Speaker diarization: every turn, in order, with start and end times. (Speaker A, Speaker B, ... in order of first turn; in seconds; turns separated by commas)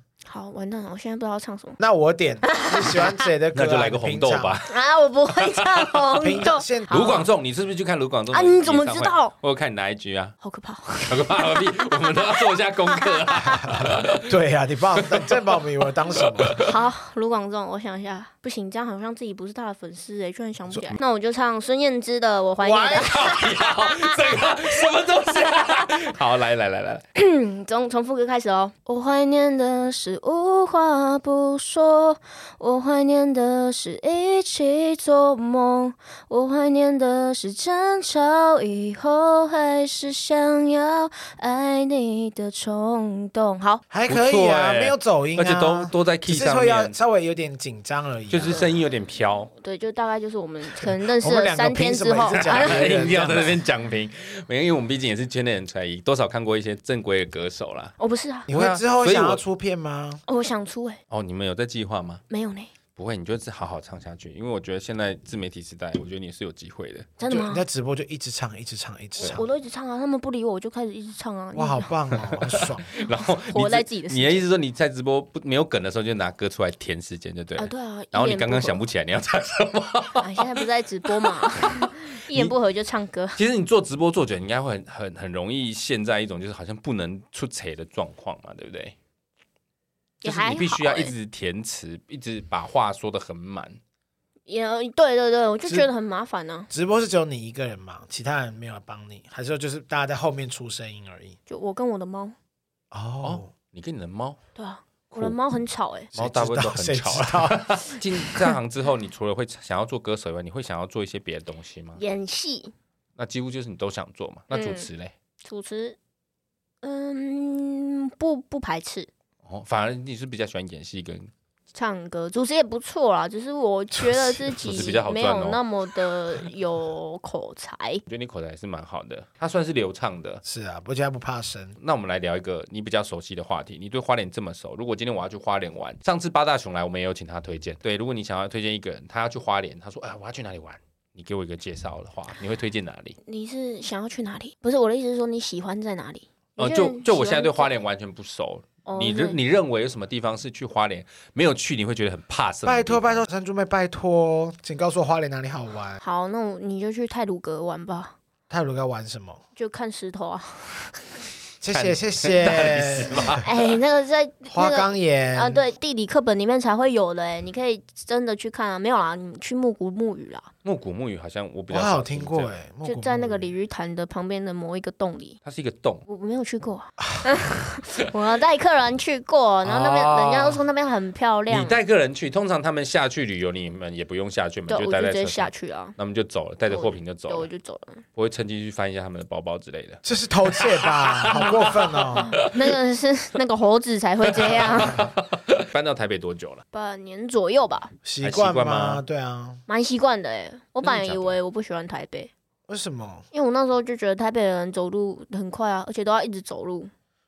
Speaker A: 0.3-1.8, Speaker B: 1.8-4.6, Speaker A: 2.4-3.3, Speaker C: 3.5-4.7, Speaker A: 4.7-7.3, Speaker C: 5.3-5.8, Speaker B: 6.2-7.1, Speaker C: 6.9-10.4, Speaker A: 8.3-9.3, Speaker A: 10.4-13.7, Speaker C: 11.1-14.3, Speaker B: 13.6-16.6, Speaker C: 15.0-15.4, Speaker C: 16.2-16.7, Speaker A: 16.6-25.9, Speaker B: 22.6-23.3, Speaker C: 22.9-27.0, Speaker A: 27.1-43.8, Speaker B: 43.9-48.6, Speaker C: 44.1-46.9, Speaker C: 48.3-49.5, Speaker A: 49.5-53.0, Speaker B: 51.2-53.6, Speaker C: 52.4-58.0, Speaker A: 58.0-58.5, Speaker B: 58.5-60.2, Speaker C: 58.5-59.4, Speaker A: 60.3-61.0, Speaker C: 61.1-62.2, Speaker A: 62.3-62.7, Speaker C: 63.0-67.1, Speaker A: 67.2-67.6, Speaker B: 67.3-69.5, Speaker A: 69.2-71.9, Speaker B: 71.5-72.9, Speaker C: 72.1-80.6, Speaker A: 73.0-74.4, Speaker A: 77.6-78.8, Speaker A: 80.2-83.4, Speaker C: 81.2-82.5, Speaker C: 83.4-88.9, Speaker A: 90.2-91.1, Speaker C: 90.2-93.8, Speaker A: 94.5-96.7, Speaker B: 96.7-101.4, Speaker A: 101.5-102.4, Speaker B: 102.9-103.5, Speaker C: 103.2-104.4, Speaker A: 104.5-106.1, Speaker B: 106.1-108.5, Speaker C: 106.1-112.0, Speaker A: 112.0-112.7, Speaker C: 113.2-115.1, Speaker A: 114.5-114.9, Speaker A: 115.4-116.0, Speaker A: 116.8-119.1, Speaker C: 119.5-121.3, Speaker A: 121.7-128.0, Speaker C: 124.4-125.6, Speaker C: 128.1-130.4, Speaker B: 130.4-131.8, Speaker C: 131.8-143.2, Speaker A: 143.3-147.8, Speaker C: 146.6-153.3, Speaker A: 148.9-149.4, Speaker B: 152.7-156.0, Speaker A: 156.0-158.2, Speaker B: 158.5-159.4, Speaker A: 159.6-161.0, Speaker B: 161.6-163.4, Speaker C: 161.7-163.6, Speaker A: 163.4-170.5, Speaker B: 164.5-165.6, Speaker C: 170.6-172.6, Speaker B: 171.7-173.5, Speaker A: 172.8-175.4, Speaker C: 175.4-176.0, Speaker A: 176.1-181.8, Speaker C: 179.7-180.6, Speaker C: 181.5-187.5, Speaker A: 184.7-186.0, Speaker A: 186.7-188.0, Speaker C: 188.2-192.7, Speaker B: 190.0-192.4, Speaker A: 192.2-195.1, Speaker C: 194.3-196.6, Speaker A: 196.7-197.9, Speaker B: 198.1-199.6, Speaker C: 198.2-199.0, Speaker A: 199.7-202.3, Speaker C: 200.8-201.4, Speaker B: 202.7-203.3, Speaker A: 203.3-206.9